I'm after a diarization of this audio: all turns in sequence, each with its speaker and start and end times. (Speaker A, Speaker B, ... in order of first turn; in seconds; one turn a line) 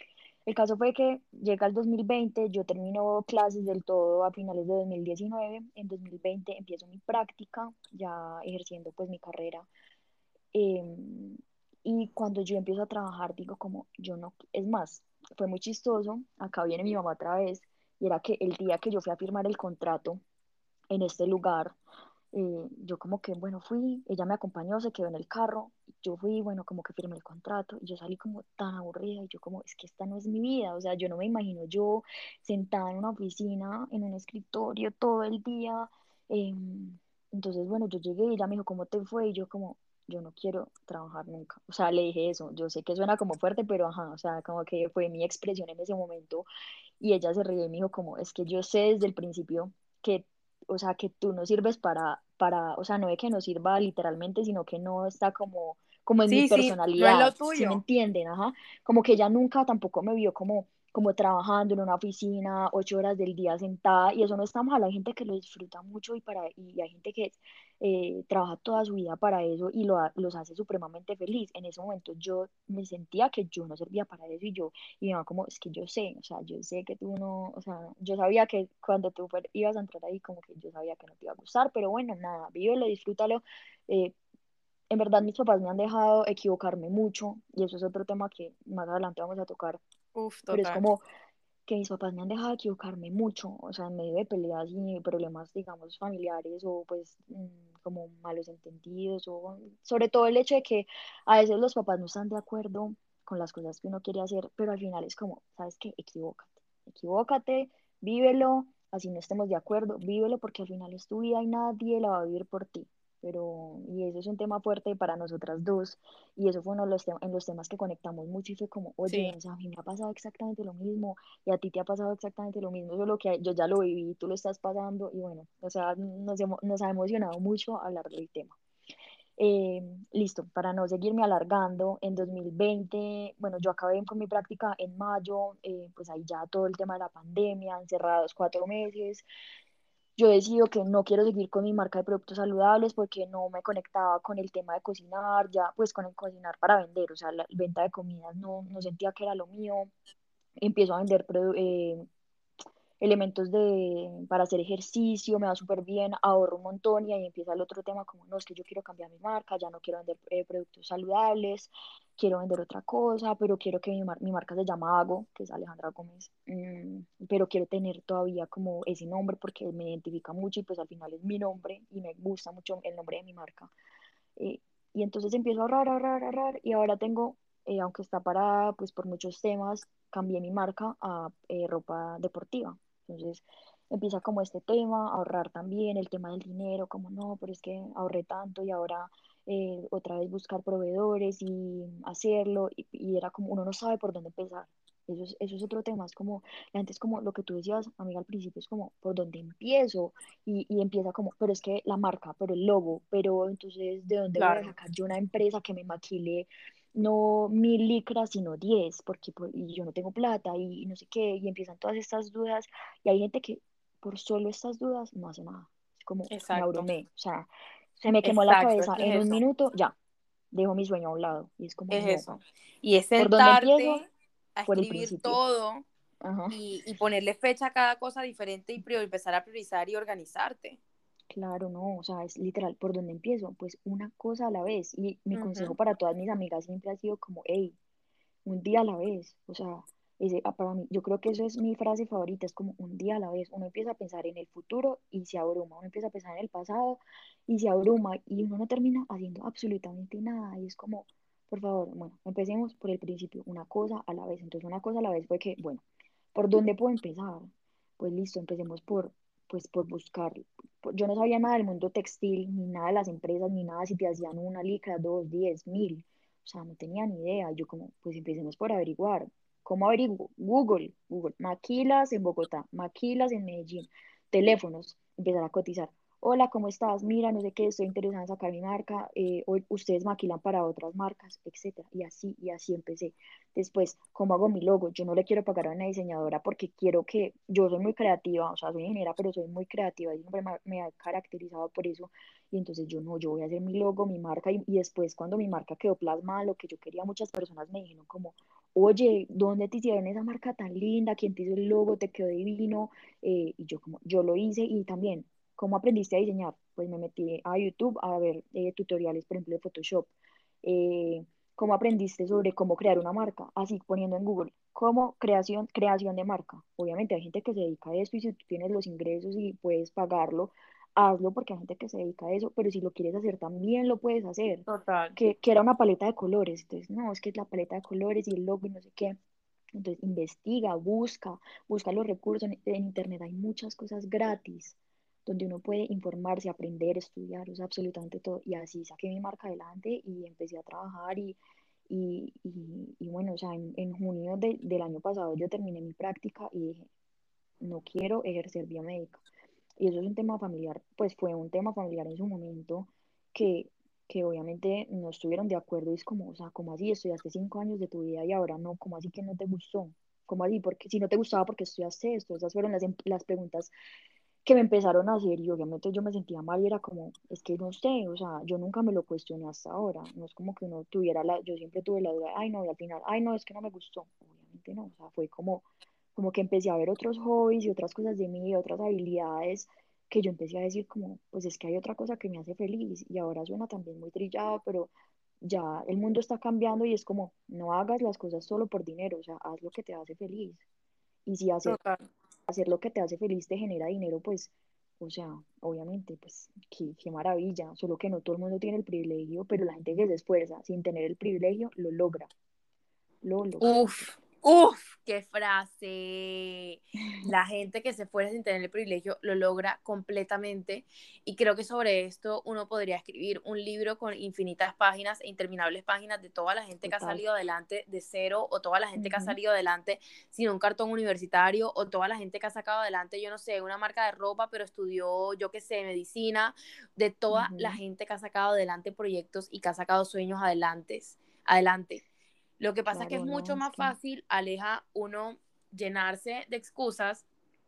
Speaker A: 0.5-9.7
Speaker A: 10.5-20.2
Speaker A: 20.9-21.8
Speaker A: 22.3-46.5
Speaker A: 47.0-84.2
Speaker B: 56.3-57.8
Speaker A: 84.9-89.8
Speaker B: 90.1-90.8
Speaker A: 90.5-91.0
Speaker A: 91.7-128.6
Speaker B: 119.0-119.3
Speaker A: 129.4-139.2
Speaker A: 140.2-149.9
Speaker A: 150.6-152.0
Speaker A: 153.0-173.7
Speaker A: 174.3-219.9
Speaker B: 204.4-204.7
Speaker B: 216.3-216.9
Speaker B: 218.2-219.4
Speaker A: 220.5-222.4
Speaker B: 221.9-225.8
Speaker A: 223.2-224.0
Speaker A: 224.7-225.4
Speaker A: 226.2-226.6
Speaker B: 226.5-230.8
Speaker A: 231.3-237.8
Speaker B: 235.3-235.8
Speaker A: 238.4-255.8
Speaker A: 256.3-310.1
Speaker A: 310.6-329.2
Speaker B: 324.7-325.2
Speaker A: 329.7-346.9
Speaker A: 347.6-349.2
Speaker A: 349.8-363.7
Speaker A: 364.4-390.6
Speaker A: 391.2-391.8
Speaker B: 391.6-392.1
Speaker A: 392.5-402.3
Speaker A: 403.2-404.0
Speaker B: 403.6-432.0
Speaker A: 416.8-417.2
Speaker A: 419.0-419.4
Speaker A: 427.3-427.8
Speaker B: 432.6-437.2
Speaker A: 432.9-433.9